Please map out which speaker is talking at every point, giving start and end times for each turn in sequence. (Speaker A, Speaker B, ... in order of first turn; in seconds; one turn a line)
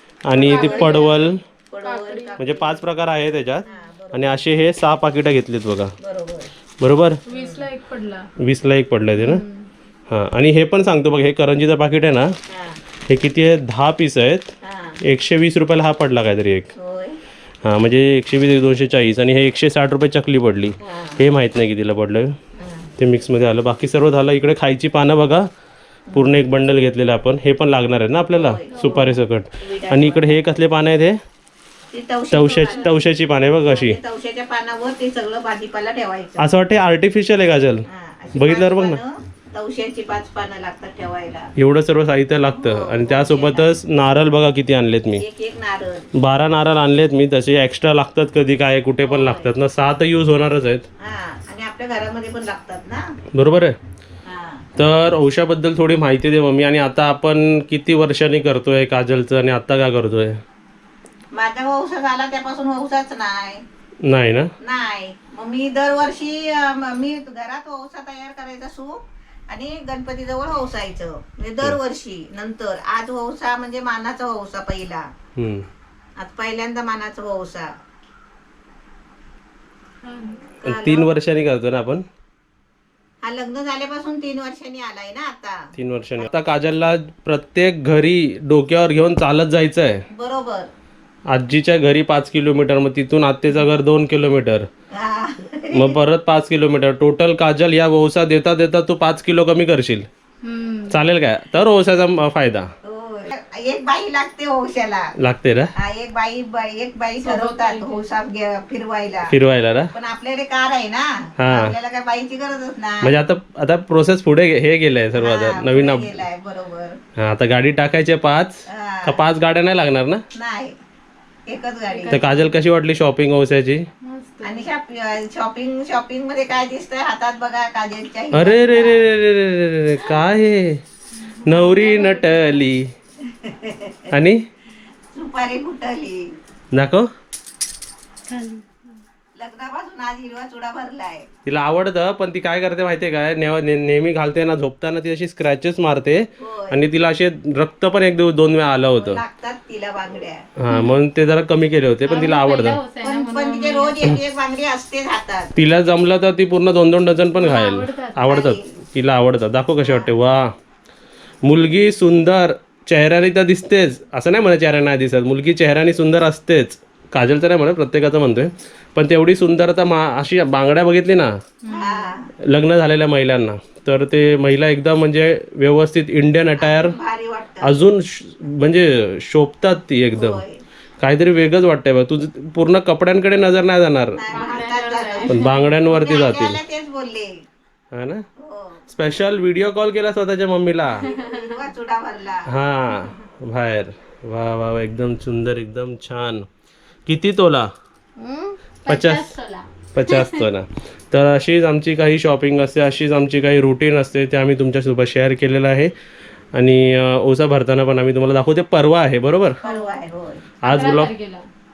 Speaker A: 0.2-1.4
Speaker B: 0.3-0.8
Speaker C: 0.4-2.8
Speaker B: 1.8-2.4
Speaker A: 2.4-5.9
Speaker C: 3.6-4.4
Speaker C: 6.0-6.5
Speaker A: 6.8-7.2
Speaker B: 7.2-8.3
Speaker C: 7.3-7.6
Speaker A: 8.4-9.4
Speaker B: 9.2-9.7
Speaker A: 10.1-12.3
Speaker C: 12.5-12.8
Speaker A: 13.1-14.5
Speaker C: 14.6-15.0
Speaker A: 15.0-16.7
Speaker C: 16.8-17.2
Speaker A: 17.6-22.4
Speaker C: 20.8-21.2
Speaker C: 22.6-22.9
Speaker A: 23.0-25.5
Speaker C: 26.1-26.4
Speaker A: 26.1-31.2
Speaker C: 28.3-30.5
Speaker C: 31.9-33.1
Speaker A: 32.3-34.0
Speaker C: 33.6-36.5
Speaker A: 36.4-39.0
Speaker C: 37.9-41.5
Speaker A: 41.6-45.2
Speaker C: 42.5-43.7
Speaker C: 45.1-46.1
Speaker A: 46.1-50.9
Speaker C: 49.0-49.5
Speaker C: 51.0-53.1
Speaker A: 53.3-53.7
Speaker C: 54.2-54.6
Speaker A: 54.8-60.4
Speaker C: 61.3-63.6
Speaker A: 64.0-64.5
Speaker C: 64.6-75.0
Speaker A: 75.4-75.7
Speaker C: 76.2-77.7
Speaker B: 80.0-80.4
Speaker C: 80.6-81.1
Speaker A: 80.6-82.0
Speaker C: 83.2-85.6
Speaker A: 85.8-90.0
Speaker C: 90.1-90.7
Speaker A: 91.3-94.7
Speaker C: 94.9-96.0
Speaker A: 95.7-100.1
Speaker B: 100.4-101.0
Speaker A: 100.9-102.7
Speaker C: 102.8-105.1
Speaker A: 105.2-105.7
Speaker C: 105.8-109.3
Speaker B: 107.2-108.0
Speaker A: 109.3-109.9
Speaker C: 109.9-113.2
Speaker A: 111.4-111.7
Speaker A: 113.0-116.2
Speaker C: 115.1-117.0
Speaker A: 117.2-120.2
Speaker C: 118.7-119.2
Speaker C: 120.3-120.8
Speaker C: 121.5-122.3
Speaker B: 121.9-122.4
Speaker A: 122.1-123.8
Speaker B: 124.0-124.6
Speaker C: 124.4-129.1
Speaker A: 128.3-130.8
Speaker B: 131.2-132.6
Speaker A: 131.4-132.9
Speaker C: 133.2-134.1
Speaker A: 134.1-134.4
Speaker C: 135.1-136.3
Speaker A: 136.7-137.1
Speaker B: 138.3-138.7
Speaker C: 139.3-141.3
Speaker A: 141.4-149.2
Speaker C: 146.4-146.8
Speaker C: 148.9-150.4
Speaker A: 150.6-152.8
Speaker B: 150.7-150.9
Speaker B: 152.1-153.9
Speaker C: 153.0-155.5
Speaker A: 155.6-160.5
Speaker B: 157.4-158.2
Speaker C: 158.2-158.7
Speaker C: 159.8-160.1
Speaker A: 161.4-171.3
Speaker C: 171.7-172.3
Speaker B: 171.7-172.0
Speaker A: 172.4-176.9
Speaker C: 176.6-177.7
Speaker A: 177.6-180.4
Speaker C: 180.1-180.6
Speaker A: 181.0-184.2
Speaker C: 184.2-185.3
Speaker B: 184.3-185.6
Speaker A: 185.3-186.6
Speaker C: 185.9-187.4
Speaker A: 187.9-188.2
Speaker C: 188.4-188.8
Speaker A: 188.9-191.0
Speaker C: 191.0-192.5
Speaker A: 192.5-196.5
Speaker A: 197.1-197.7
Speaker B: 198.2-200.4
Speaker A: 198.9-199.3
Speaker A: 199.9-205.9
Speaker A: 206.5-209.6
Speaker C: 209.6-210.5
Speaker A: 210.6-211.1
Speaker B: 210.7-211.5